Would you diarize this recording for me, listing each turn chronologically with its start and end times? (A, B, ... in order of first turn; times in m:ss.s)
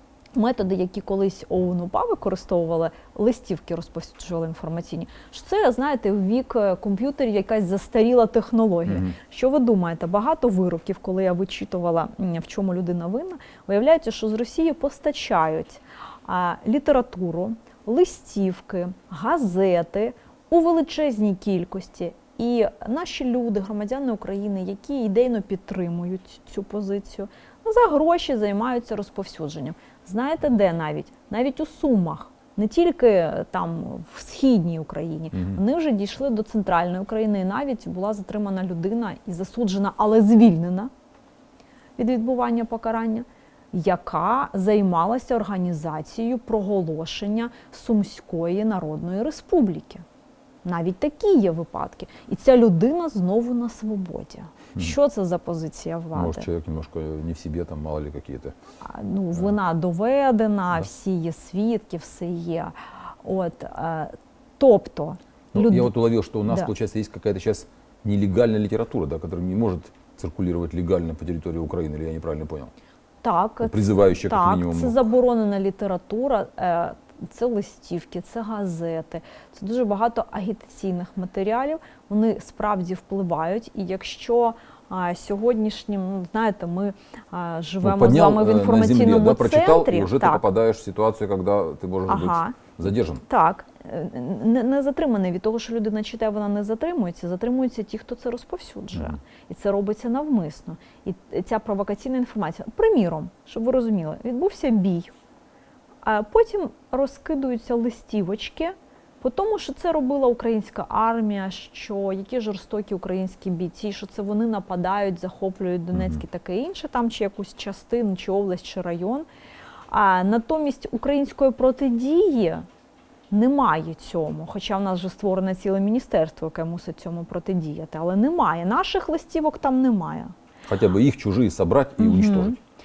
0:00.3-0:40.9 A
0:08.9-0:09.2 B
0:42.0-0:50.0 A
0:50.6-0:56.5 A
0:56.1-0:58.5 B
0:58.8-1:05.9 A
1:05.5-1:12.7 B
1:13.2-1:30.4 A
1:13.6-1:15.0 B
1:27.8-1:33.2 B
1:32.1-1:32.6 A
1:33.2-1:45.1 A
1:46.0-1:59.2 A
1:59.9-2:02.6 A
2:03.3-2:10.3 A
2:10.6-2:12.6 B
2:12.0-2:12.6 A